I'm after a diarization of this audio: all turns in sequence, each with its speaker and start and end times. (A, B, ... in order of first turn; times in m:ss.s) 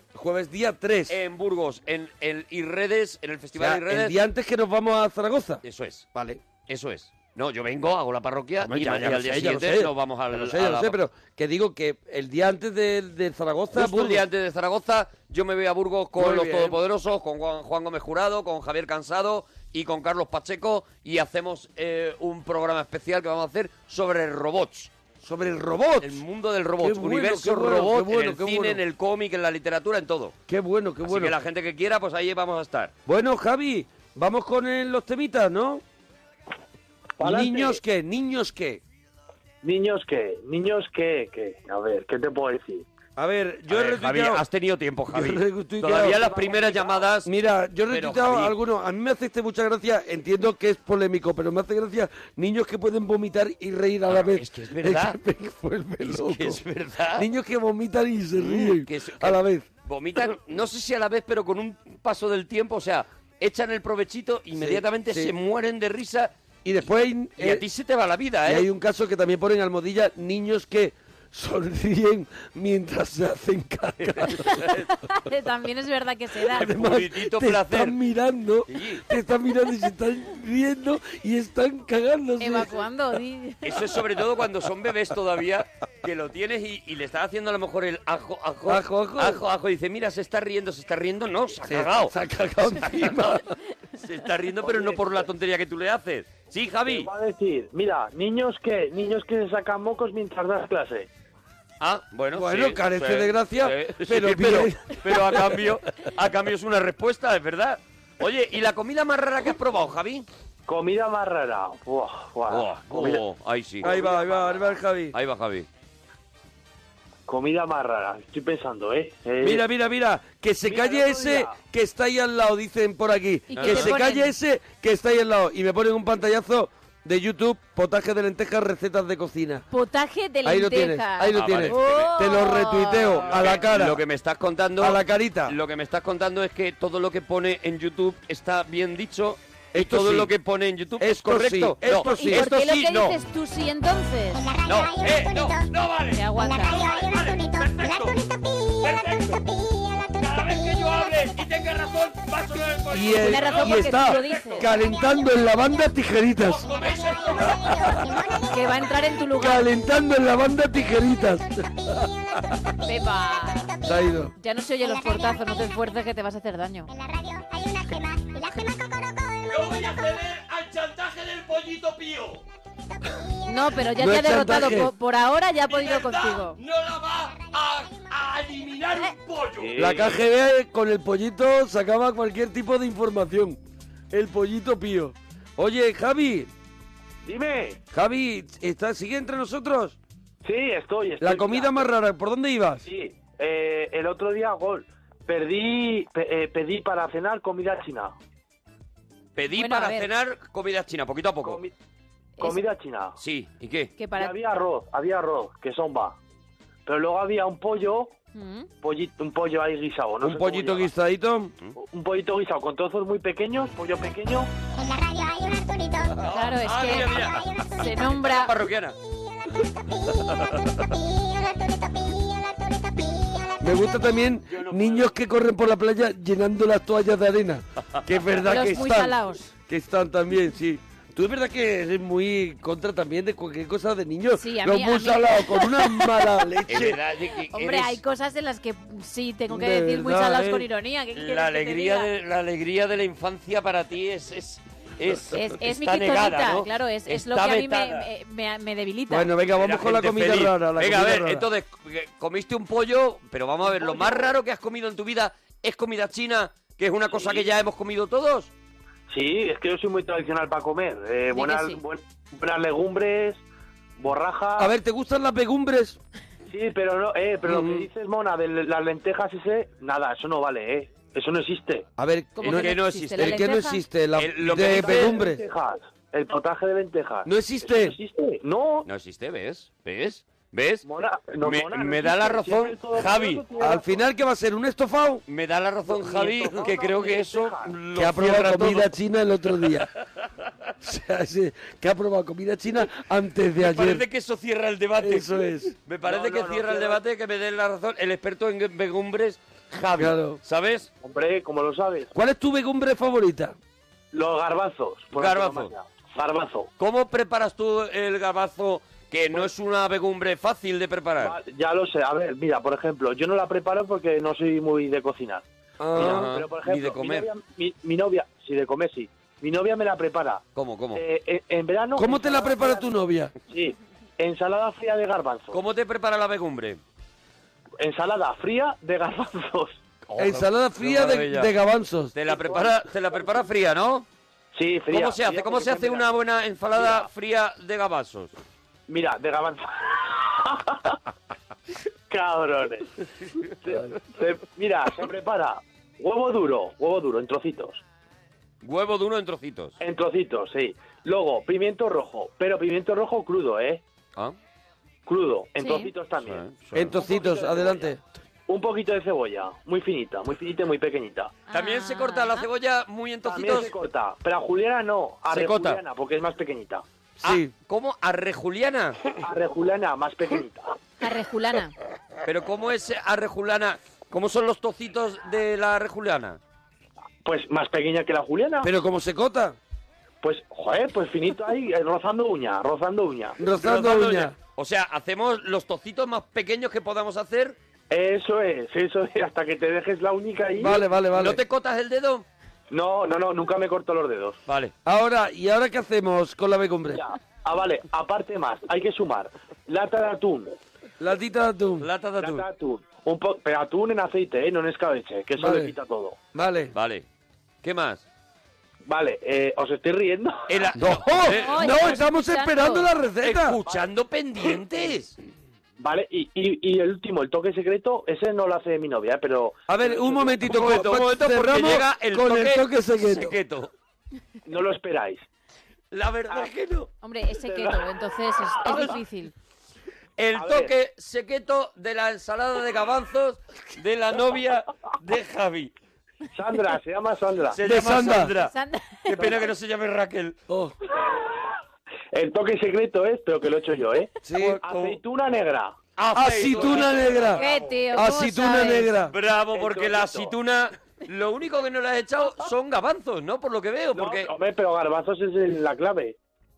0:00.1-0:01.2 A
0:01.1-0:04.2 B
0:03.6-0:05.6 A
0:05.6-0:06.1 B
0:06.1-0:06.4 A
0:06.7-0:11.0 B
0:08.6-0:14.2 A
0:13.7-0:24.9 B
0:16.2-0:16.8 A
0:25.2-0:26.2 A
0:26.0-0:30.3 B
0:26.8-0:28.8 A
0:30.5-0:31.4 A
0:31.0-0:32.9 B
0:33.0-0:35.8 A
0:37.2-0:37.8 C
0:37.2-0:38.8 A
0:39.6-0:42.8 C
0:43.2-0:44.4 A
0:43.7-0:47.3 B
0:45.1-0:46.2 A
0:45.9-0:47.1 C
0:47.2-0:56.6 A
0:47.9-0:48.6 B
0:54.1-0:55.2 B
0:56.0-0:57.3 B
0:57.2-0:59.6 A
0:58.4-1:06.3 B
1:04.6-1:05.3 A
1:06.6-1:07.6 A
1:07.4-1:08.7 B
1:08.4-1:14.7 A
1:14.0-1:14.9 B
1:15.0-1:16.7 D
1:16.5-1:22.8 A
1:16.6-1:17.9 B
1:18.7-1:19.0 B
1:22.4-1:23.8 D
1:23.6-1:33.4 B
1:28.7-1:29.4 A
1:31.6-1:33.5 A
1:34.0-1:37.1 B
1:34.6-1:35.2 C
1:36.9-1:41.1 C
1:41.8-1:50.3 B
1:42.4-1:45.6 A
1:50.7-1:53.2 C
1:52.5-1:53.9 B
1:53.8-1:54.8 C
1:53.8-1:55.1 A
1:55.1-1:55.7 B
1:57.3-1:59.7 C
1:59.4-2:09.6 A
2:00.6-2:01.5 C
2:03.5-2:04.3 D
2:03.6-2:04.0 B
2:09.7-2:13.4 D
2:10.4-2:14.0 A
2:11.3-2:12.4 B
2:13.1-2:23.2 B
2:14.8-2:15.6 A
2:19.7-2:20.3 A
2:21.0-2:22.5 A
2:21.9-2:24.4 D
2:24.3-2:25.7 E
2:24.6-2:28.2 B
2:26.1-2:26.8 D
2:26.4-2:30.9 E
2:28.8-2:29.4 B
2:30.2-2:34.7 B
2:32.9-2:36.7 A
2:33.1-2:34.6 D
2:34.8-2:35.8 E
2:36.4-2:38.0 B
2:36.8-2:38.7 E
2:37.6-2:38.4 A
2:38.5-2:39.7 D
2:39.3-2:42.1 A
2:42.8-2:43.8 D
2:43.7-2:43.9 E
2:43.8-2:44.3 A
2:44.4-2:46.9 D
2:44.8-2:45.6 E
2:46.9-2:50.1 E
2:49.5-2:52.4 B
2:53.4-2:56.6 D
2:54.0-2:54.9 A
2:55.7-2:59.8 B
2:57.3-2:58.1 E
2:59.6-3:00.2 C
2:59.8-3:03.6 A
3:04.1-3:06.5 A
3:07.2-3:07.8 C
3:07.9-3:10.0 A
3:10.4-3:11.8 C
3:11.2-3:12.8 A
3:12.8-3:18.1 C
3:19.3-3:21.6 B
3:19.6-3:20.1 D
3:21.4-3:21.7 C
3:22.4-3:22.6 D
3:22.4-3:23.2 C
3:23.2-3:23.9 B
3:24.0-3:24.3 D
3:24.2-3:26.2 C
3:26.8-3:28.1 C
3:28.3-3:28.7 D
3:28.8-3:30.9 C
3:30.2-3:31.5 A
3:31.8-3:34.5 C
3:34.7-3:38.1 E
3:36.2-3:37.5 B
3:36.3-3:37.2 D
3:37.8-3:38.5 D
3:38.0-3:39.0 B
3:39.1-3:44.2 E
3:43.6-3:57.0 A
3:44.5-3:45.1 B
3:48.4-3:49.5 D
3:54.4-3:56.4 D
3:56.7-3:58.0 B
3:57.4-4:02.1 D
3:59.5-4:00.6 A
4:01.1-4:08.1 B
4:05.3-4:09.3 D
4:09.1-4:11.5 A
4:09.6-4:18.5 B
4:13.7-4:14.3 C
4:17.2-4:17.4 C
4:19.1-4:23.4 C
4:21.3-4:21.8 D
4:24.0-4:24.7 C
4:24.6-4:26.0 A
4:26.5-4:31.8 C
4:27.5-4:27.8 A
4:32.0-4:35.4 A
4:32.3-4:33.8 D
4:32.4-4:33.5 B
4:34.1-4:35.2 B
4:34.5-4:38.9 C
4:37.2-4:38.0 A
4:38.8-4:40.8 B
4:40.8-4:44.0 C
4:41.4-4:43.4 B
4:43.6-4:45.2 A
4:45.3-4:48.9 B
4:45.9-4:47.7 C
4:48.0-4:49.9 A
4:50.8-4:54.0 A
4:53.6-5:00.9 B
4:55.0-4:55.7 A
4:56.0-4:57.0 C
5:00.0-5:00.4 A
5:01.0-5:02.1 C
5:02.1-5:03.5 A
5:04.1-5:06.7 C
5:05.1-5:05.7 B
5:06.8-5:11.4 B
5:11.2-5:15.4 C
5:15.8-5:16.3 A
5:16.0-5:17.3 B
5:16.0-5:20.4 C
5:20.6-5:21.0 B
5:20.9-5:22.9 C
5:22.0-5:23.3 A
5:23.5-5:25.6 C
5:25.5-5:26.8 B
5:27.8-5:29.8 C
5:30.0-5:31.5 B
5:30.2-5:32.1 A
5:32.1-5:34.1 B
5:32.3-5:32.7 C
5:34.5-5:36.2 C
5:34.9-5:38.3 B
5:36.7-5:37.1 C
5:38.9-5:41.0 C
5:42.1-5:42.9 C
5:43.6-5:47.8 C
5:48.6-5:49.8 B
5:49.8-5:53.8 C
5:55.1-5:57.9 C
5:55.6-5:55.9 D
5:56.2-5:56.9 B
5:56.7-5:58.0 A
5:58.5-6:01.3 C
6:01.5-6:02.5 D
6:01.5-6:03.7 B
6:03.2-6:06.8 C
6:05.3-6:05.8 B
6:07.2-6:07.5 A
6:07.2-6:09.0 B
6:09.2-6:10.8 C
6:11.0-6:11.7 D
6:12.2-6:16.4 B
6:17.2-6:18.7 C
6:18.6-6:19.6 A
6:20.2-6:23.4 C
6:23.4-6:24.3 A
6:23.5-6:27.6 B
6:27.9-6:30.8 C
6:30.6-6:31.4 A
6:31.1-6:32.3 B
6:32.7-6:34.4 C
6:34.5-6:34.7 B
6:34.8-6:37.0 A
6:36.9-6:40.5 C
6:41.0-6:41.9 A
6:41.8-6:42.4 B
6:42.2-6:46.2 C
6:45.4-6:45.7 A
6:46.3-6:46.7 A
6:46.7-6:47.1 B
6:47.6-6:48.0 B
6:48.8-6:50.7 C
6:50.5-6:52.0 B
6:50.7-6:53.6 A
6:51.2-6:52.9 D
6:53.2-6:55.2 B
6:55.8-7:00.4 C
6:59.7-7:03.3 A
7:00.4-7:03.7 B
7:04.4-7:05.2 C
7:05.9-7:06.9 B
7:07.0-7:09.3 D
7:07.5-7:07.8 C
7:08.5-7:08.9 C
7:10.2-7:15.7 B
7:10.3-7:10.7 C
7:16.3-7:17.6 C
7:17.5-7:18.5 B
7:17.6-7:18.3 A
7:18.3-7:19.3 D
7:19.0-7:20.4 B
7:21.0-7:21.4 C
7:22.1-7:25.8 C
7:24.2-7:24.6 A
7:24.4-7:25.0 B
7:26.0-7:27.5 B
7:26.1-7:27.4 A
7:26.4-7:27.8 C
7:27.4-7:29.0 D
7:27.9-7:29.1 A
7:29.1-7:34.3 B
7:29.5-7:30.3 C
7:33.9-7:36.2 C